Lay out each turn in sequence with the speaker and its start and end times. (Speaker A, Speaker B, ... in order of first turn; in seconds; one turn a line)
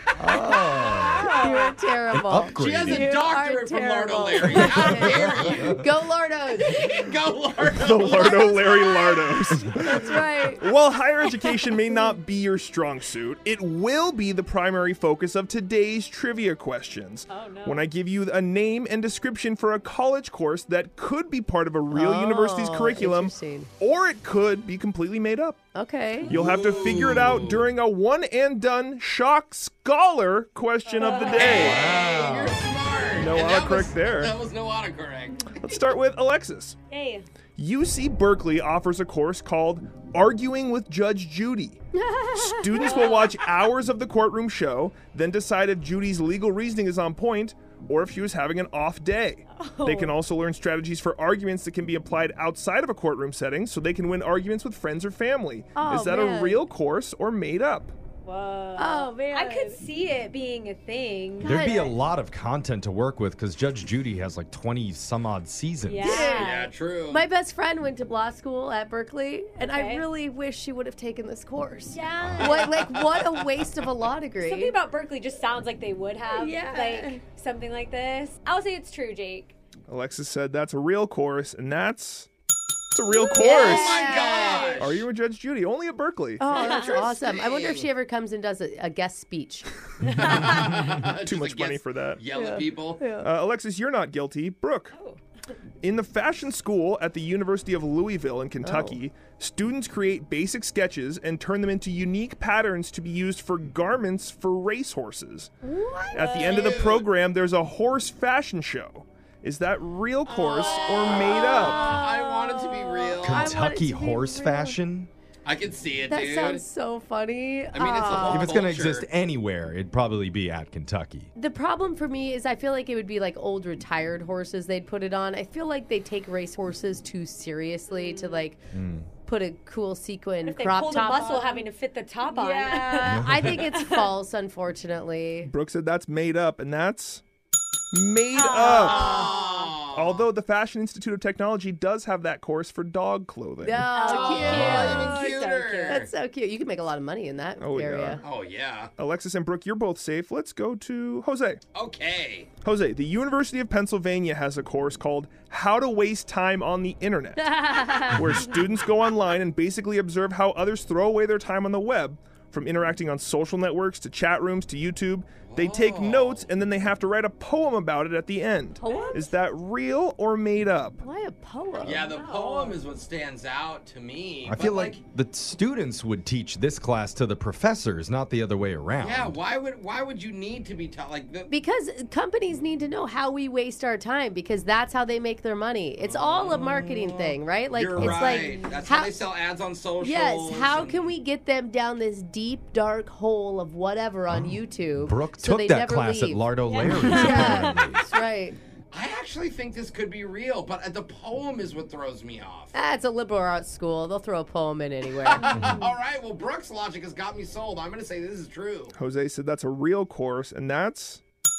Speaker A: 0.2-1.3
Speaker B: 1.1-6.8
Speaker A: 2.1-3.1
Speaker C: 2.4-9.2
Speaker A: 4.6-5.1
Speaker D: 7.6-25.6
Speaker B: 7.8-10.7
Speaker E: 17.3-17.9
Speaker B: 21.9-23.7
Speaker B: 25.7-26.5
Speaker D: 26.3-31.7
Speaker C: 26.4-27.8
Speaker E: 30.8-31.4
Speaker C: 31.3-35.5
Speaker A: 31.5-32.5
Speaker D: 33.2-34.3
Speaker D: 35.5-36.8
Speaker E: 36.9-37.2
Speaker D: 37.6-41.8
Speaker B: 42.0-43.1
Speaker D: 42.3-57.9
Speaker E: 42.8-43.3
Speaker E: 49.5-50.2
Speaker B: 55.7-56.7
Speaker E: 58.2-61.6
Speaker B: 58.8-59.8
Speaker B: 61.4-61.9
Speaker A: 61.4-66.2
Speaker E: 65.8-66.7
Speaker B: 66.0-66.5
Speaker C: 66.1-67.3
Speaker B: 67.1-74.8
Speaker E: 69.6-70.0
Speaker E: 71.9-73.0
Speaker C: 72.3-73.5
Speaker E: 74.4-79.5
Speaker B: 76.3-77.2
Speaker D: 79.9-82.3
Speaker D: 82.9-83.8
Speaker B: 83.1-85.0
Speaker C: 83.7-85.0
Speaker E: 84.0-84.7
Speaker D: 84.8-86.6
Speaker B: 86.4-89.7
Speaker E: 86.5-87.2
Speaker C: 87.2-87.9
Speaker C: 90.1-93.2
Speaker D: 91.2-92.2
Speaker B: 92.3-93.3
Speaker D: 93.1-94.9
Speaker D: 95.8-105.5
Speaker B: 98.6-99.0
Speaker B: 105.6-106.8
Speaker D: 106.1-111.8
Speaker C: 106.4-107.0
Speaker C: 110.3-113.4
Speaker B: 111.7-114.8
Speaker A: 113.2-115.1
Speaker C: 115.4-116.6
Speaker B: 116.1-118.5
Speaker C: 117.7-119.1
Speaker A: 118.3-121.3
Speaker B: 121.3-128.6
Speaker E: 127.9-128.4
Speaker A: 128.7-129.1
Speaker B: 129.2-131.7
Speaker E: 130.4-134.1
Speaker B: 132.4-135.5
Speaker A: 133.0-133.6
Speaker D: 135.4-137.2
Speaker D: 137.9-139.2
Speaker E: 138.3-139.7
Speaker B: 138.6-139.2
Speaker C: 138.9-140.3
Speaker D: 139.9-144.0
Speaker B: 143.6-145.2
Speaker E: 143.9-146.1
Speaker C: 144.2-146.1
Speaker B: 145.9-148.2
Speaker D: 147.6-148.2
Speaker C: 148.2-148.9
Speaker D: 149.0-151.6
Speaker C: 151.7-152.5
Speaker D: 152.6-171.0
Speaker B: 157.6-158.3
Speaker C: 165.4-166.5
Speaker E: 168.8-169.3
Speaker B: 171.0-172.2
Speaker C: 171.8-175.0
Speaker E: 172.1-172.8
Speaker A: 174.4-179.4
Speaker C: 179.0-181.5
Speaker B: 181.5-189.3
Speaker C: 186.0-191.1
Speaker B: 190.0-198.6
Speaker A: 194.3-198.0
Speaker E: 196.7-197.7
Speaker C: 198.9-202.8
Speaker B: 202.7-205.8
Speaker C: 205.1-208.9
Speaker D: 208.9-211.2